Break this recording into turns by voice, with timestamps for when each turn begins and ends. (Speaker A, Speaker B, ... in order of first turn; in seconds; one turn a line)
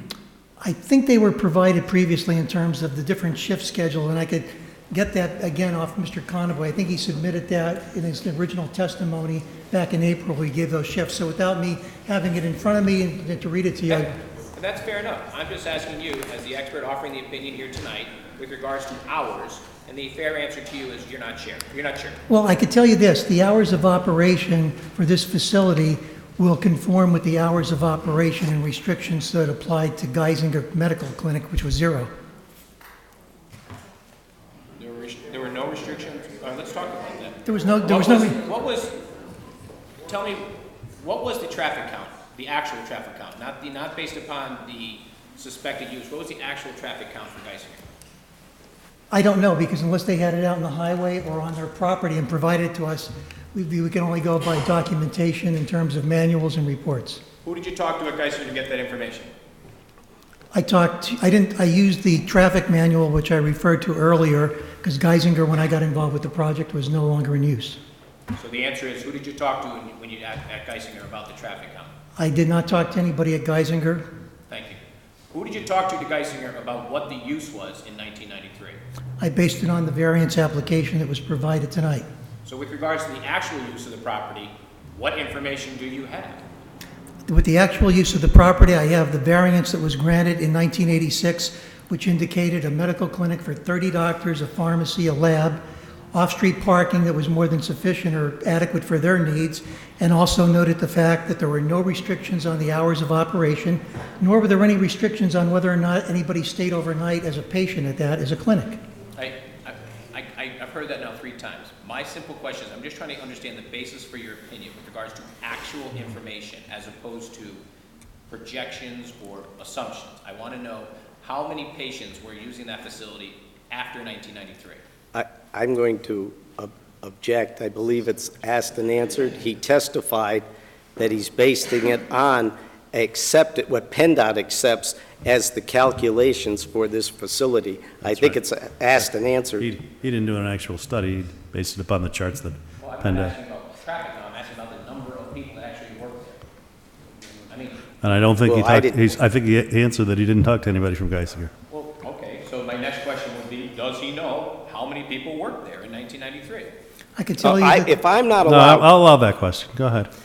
Speaker A: 0.6-14.1
Speaker B: 13.9-22.2
Speaker A: 22.3-32.1
Speaker B: 34.8-38.9
Speaker A: 37.5-38.4
Speaker B: 40.0-47.8
Speaker A: 49.1-57.2
Speaker B: 57.4-59.3
Speaker A: 60.5-67.8
Speaker B: 68.3-71.9
Speaker A: 72.2-74.0
Speaker B: 74.5-78.8
Speaker A: 79.2-82.1
Speaker B: 82.4-86.4
Speaker A: 87.3-95.6
Speaker A: 96.1-108.8
Speaker B: 109.2-117.6
Speaker B: 118.3-124.8
Speaker C: 125.1-130.4
Speaker C: 131.0-139.7
Speaker D: 138.0-138.4
Speaker D: 139.6-143.3
Speaker B: 142.8-146.4
Speaker B: 147.5-147.8
Speaker D: 148.0-151.5
Speaker C: 148.4-149.0
Speaker B: 151.7-156.7
Speaker A: 157.2-158.0
Speaker C: 157.4-158.8
Speaker D: 158.4-160.1